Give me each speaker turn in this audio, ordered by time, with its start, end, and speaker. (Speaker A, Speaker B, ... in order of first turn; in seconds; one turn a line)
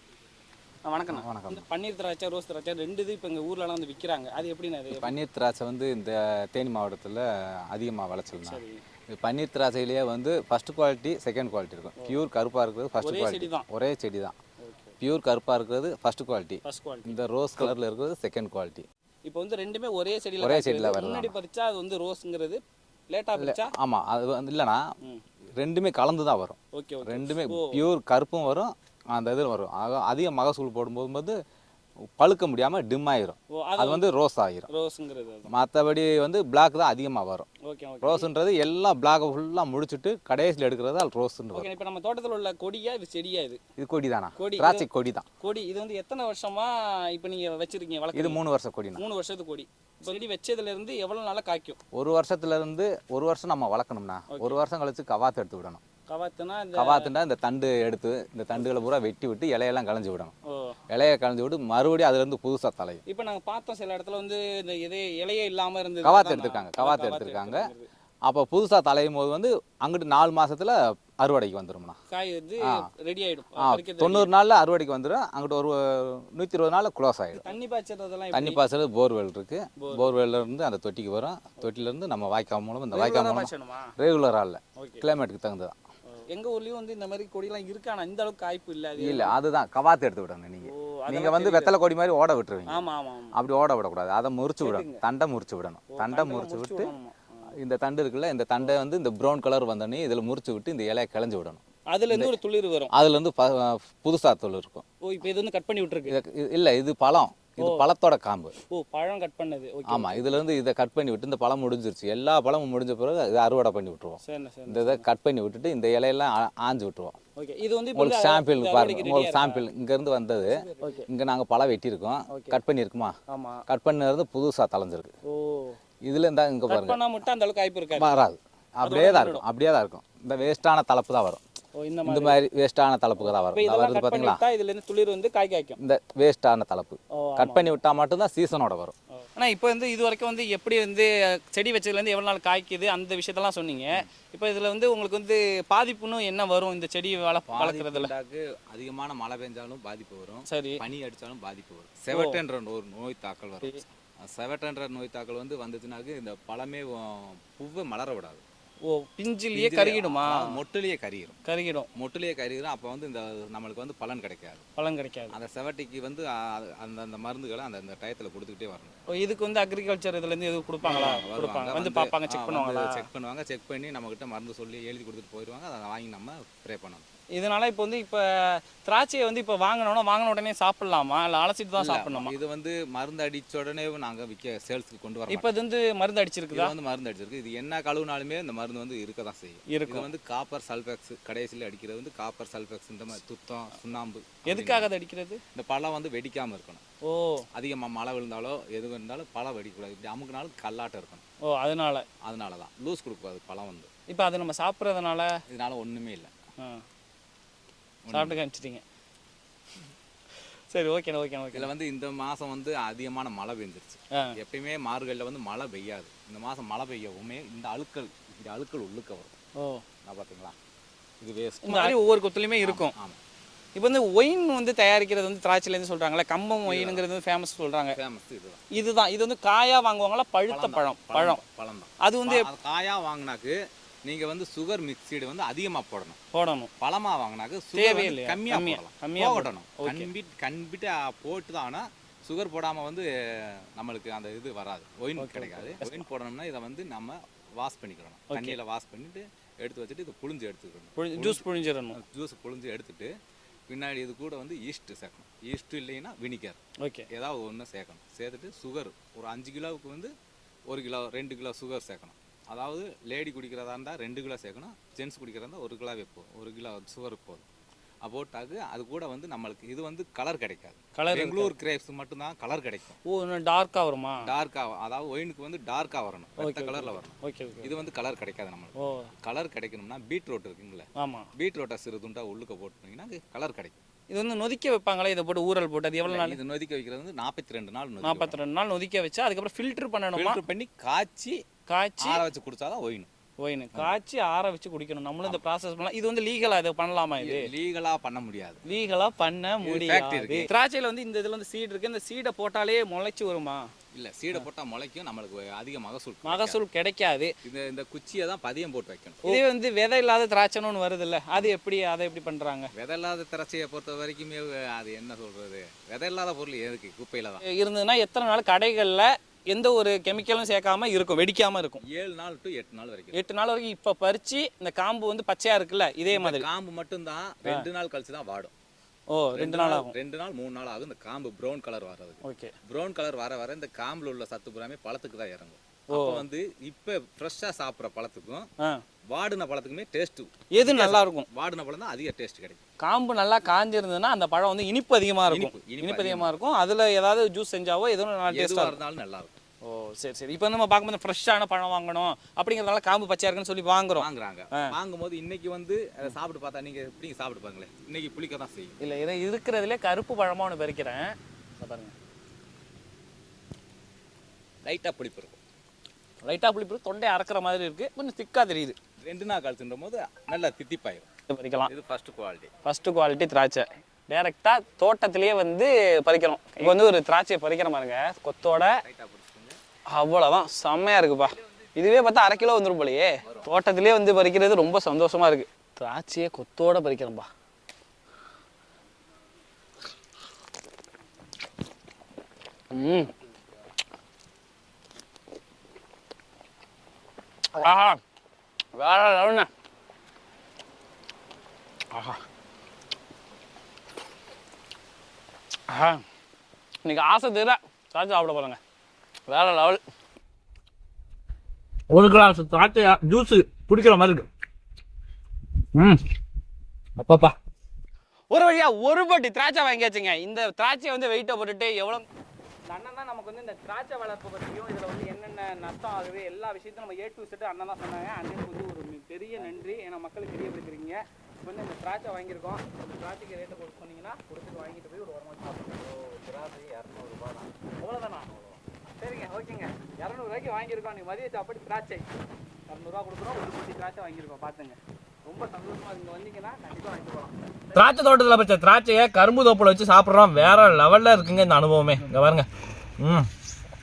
Speaker A: 0.8-5.1
Speaker B: 1.1-1.7
Speaker B: 4.9-14.4
Speaker A: 8.4-8.8
Speaker A: 13.0-13.7
Speaker A: 14.6-14.9
Speaker B: 15.0-18.9
Speaker A: 16.6-17.7
Speaker A: 19.3-23.7
Speaker B: 20.4-21.4
Speaker B: 23.4-24.8
Speaker B: 25.6-31.4
Speaker A: 26.7-27.8
Speaker B: 32.2-34.7
Speaker A: 33.5-34.1
Speaker A: 34.7-35.5
Speaker B: 35.5-37.5
Speaker A: 37.6-38.3
Speaker B: 38.0-41.7
Speaker A: 41.5-43.6
Speaker B: 43.8-45.3
Speaker A: 44.4-44.9
Speaker A: 45.4-48.4
Speaker B: 48.1-49.0
Speaker A: 49.0-51.8
Speaker B: 51.9-55.8
Speaker A: 54.3-54.6
Speaker A: 56.1-57.1
Speaker B: 56.7-60.4
Speaker A: 60.5-60.8
Speaker B: 60.9-63.0
Speaker A: 63.1-67.9
Speaker B: 66.0-67.7
Speaker B: 68.3-72.0
Speaker A: 72.1-74.3
Speaker B: 72.6-72.9
Speaker B: 73.6-77.5
Speaker A: 77.4-78.6
Speaker B: 78.3-85.8
Speaker A: 79.8-80.1
Speaker A: 82.9-83.9
Speaker A: 84.8-85.1
Speaker A: 86.1-89.3
Speaker B: 89.0-96.9
Speaker A: 90.7-91.7
Speaker A: 92.7-93.3
Speaker A: 94.6-95.0
Speaker A: 95.9-97.5
Speaker B: 97.6-102.4
Speaker A: 101.9-102.9
Speaker B: 102.9-104.8
Speaker A: 105.0-106.2
Speaker B: 106.1-108.5
Speaker A: 107.6-107.8
Speaker A: 108.7-110.4
Speaker B: 109.9-117.2
Speaker A: 114.2-115.0
Speaker A: 117.4-119.6
Speaker B: 118.0-123.2
Speaker A: 120.7-121.1
Speaker A: 122.3-122.6
Speaker A: 123.3-123.6
Speaker B: 123.7-125.1
Speaker A: 125.2-125.8
Speaker B: 126.0-127.0
Speaker A: 126.7-128.1
Speaker B: 128.0-131.4
Speaker A: 128.8-129.4
Speaker A: 131.8-132.4
Speaker B: 132.1-134.4
Speaker A: 133.2-135.8
Speaker B: 135.8-138.9
Speaker A: 137.1-137.7
Speaker A: 139.2-148.1
Speaker B: 147.5-158.4
Speaker A: 150.5-150.8
Speaker A: 152.1-152.4
Speaker A: 158.8-160.6
Speaker B: 159.5-161.4
Speaker A: 161.5-161.9
Speaker B: 162.0-164.7
Speaker A: 164.8-165.4
Speaker B: 165.3-168.9
Speaker A: 169.1-173.1
Speaker B: 170.8-177.1
Speaker A: 177.3-182.3
Speaker B: 181.8-185.5
Speaker A: 185.3-186.8
Speaker B: 186.5-194.9
Speaker A: 189.7-190.1
Speaker A: 194.4-195.4
Speaker B: 195.5-196.8
Speaker A: 197.0-197.5
Speaker B: 197.5-201.2
Speaker A: 201.4-202.1
Speaker B: 202.2-203.9
Speaker A: 204.1-205.4
Speaker B: 205.5-206.3
Speaker B: 208.0-208.4
Speaker A: 208.1-208.8
Speaker A: 210.7-211.7
Speaker B: 211.5-219.3
Speaker A: 219.6-219.8
Speaker B: 220.1-220.6
Speaker B: 221.2-222.0
Speaker A: 221.6-222.9
Speaker B: 222.6-223.2
Speaker A: 223.8-228.0
Speaker B: 226.6-227.0
Speaker B: 227.9-228.6
Speaker A: 228.7-231.4
Speaker B: 230.5-236.2
Speaker A: 232.0-232.5
Speaker A: 236.3-236.7
Speaker B: 236.8-251.4
Speaker A: 237.7-240.1
Speaker A: 245.2-246.1
Speaker A: 248.3-248.6
Speaker A: 251.0-252.0
Speaker B: 251.9-253.1
Speaker B: 253.7-256.6
Speaker A: 256.8-257.1
Speaker B: 257.1-260.1
Speaker B: 260.7-267.5
Speaker B: 268.0-273.0
Speaker A: 270.9-271.5
Speaker A: 273.1-274.3
Speaker B: 274.2-283.8
Speaker A: 276.4-277.7
Speaker A: 278.8-279.1
Speaker A: 281.0-281.3
Speaker A: 284.1-286.4
Speaker B: 286.1-288.4
Speaker A: 288.0-290.4
Speaker B: 290.1-291.4
Speaker A: 291.7-292.2
Speaker B: 292.0-293.1
Speaker A: 293.4-297.5
Speaker B: 297.2-298.6
Speaker A: 298.7-303.7
Speaker B: 299.6-300.5
Speaker B: 303.9-306.6
Speaker A: 306.2-307.3
Speaker B: 307.4-309.4
Speaker A: 309.2-312.7
Speaker B: 312.7-317.4
Speaker A: 317.4-321.8
Speaker B: 321.8-323.2
Speaker A: 323.1-326.5
Speaker B: 326.1-328.5
Speaker A: 329.1-329.9
Speaker B: 329.4-338.5
Speaker A: 332.2-332.5
Speaker A: 335.9-336.2
Speaker B: 339.1-342.6
Speaker A: 340.5-341.3
Speaker A: 342.8-348.8
Speaker B: 345.3-346.3
Speaker B: 348.3-349.4
Speaker A: 349.6-354.8
Speaker B: 354.0-358.8
Speaker A: 358.8-361.9
Speaker B: 364.6-365.4
Speaker A: 366.2-368.8
Speaker B: 369.0-371.1
Speaker A: 371.3-371.7
Speaker B: 371.7-372.5
Speaker A: 372.6-378.8
Speaker B: 378.5-379.6
Speaker A: 379.9-387.3
Speaker A: 392.7-393.1
Speaker A: 397.5-398.0
Speaker A: 398.8-399.5
Speaker A: 401.9-402.2
Speaker A: 405.7-406.0
Speaker A: 406.8-408.6
Speaker A: 409.3-409.8
Speaker C: 411.9-414.3
Speaker C: 415.8-416.0
Speaker C: 417.0-417.4
Speaker A: 418.3-422.1
Speaker A: 422.7-435.9
Speaker B: 429.4-429.8
Speaker B: 435.7-438.6
Speaker A: 437.8-438.4
Speaker A: 439.0-442.1
Speaker A: 442.7-448.0
Speaker C: 447.8-452.5
Speaker C: 453.0-453.3